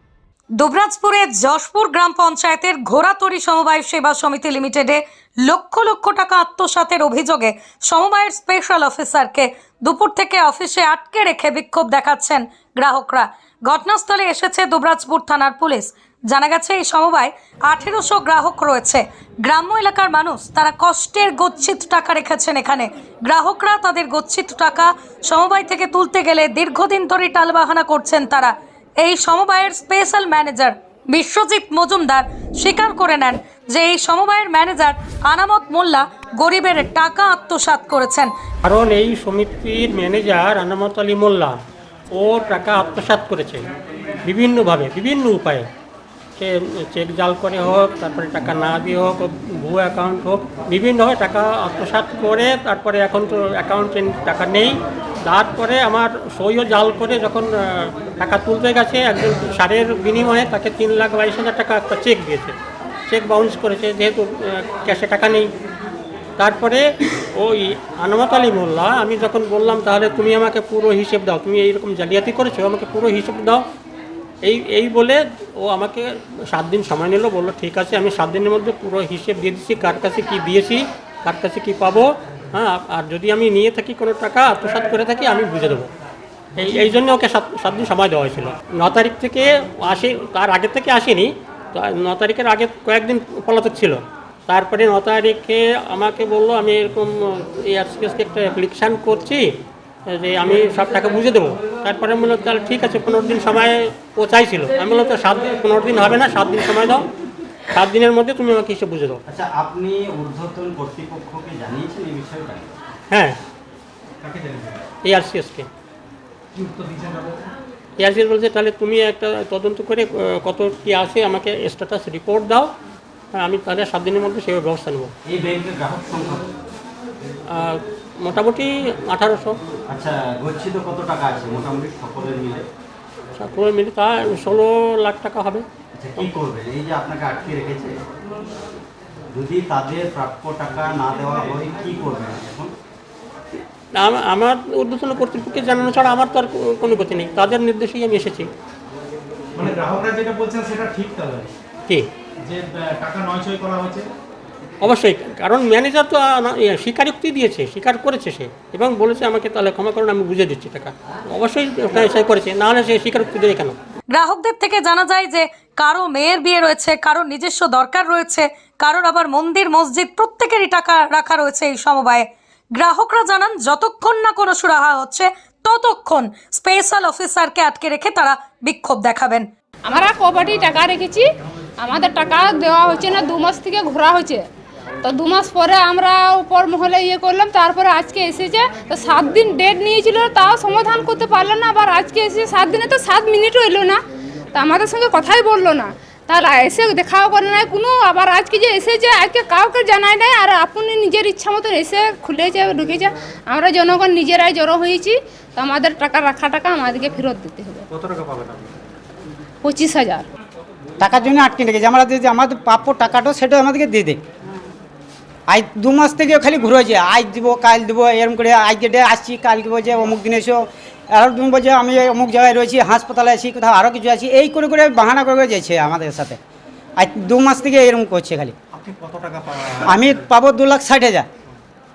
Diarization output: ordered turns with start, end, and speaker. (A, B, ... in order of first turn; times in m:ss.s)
0:00.6-0:05.0 A
0:05.5-0:28.5 A
0:29.1-0:38.2 A
0:38.6-0:41.6 B
0:42.1-0:43.7 B
0:44.3-0:45.7 B
0:46.4-1:02.6 B
1:03.1-1:05.5 B
1:06.4-1:13.7 B
1:14.4-1:25.9 B
1:26.6-1:39.5 B
1:40.1-1:47.1 B
1:47.7-1:49.2 B
1:49.3-1:52.7 C
1:53.1-1:53.4 B
1:54.2-1:54.8 D
1:55.0-1:55.7 B
1:56.6-1:57.4 D
1:58.0-2:02.7 B
2:03.4-2:05.1 B
2:05.2-2:06.5 C
2:07.5-2:09.6 B
2:09.9-2:12.7 C
2:13.4-2:15.6 B
2:16.0-2:17.9 C
2:19.3-2:22.7 C
2:24.0-2:28.5 B
2:29.6-2:31.5 D
2:32.5-2:34.0 D
2:34.8-2:43.8 B
2:44.2-2:52.2 A
2:52.8-2:59.4 A
2:59.9-3:01.2 E
3:01.8-3:04.4 E
3:05.0-3:14.0 E
3:14.5-3:27.8 E
3:29.6-3:30.3 E
3:31.0-3:34.2 F
3:35.5-3:40.6 F
3:41.1-3:46.4 F
3:47.0-3:48.5 F
3:48.8-3:49.8 D
3:49.9-3:51.3 F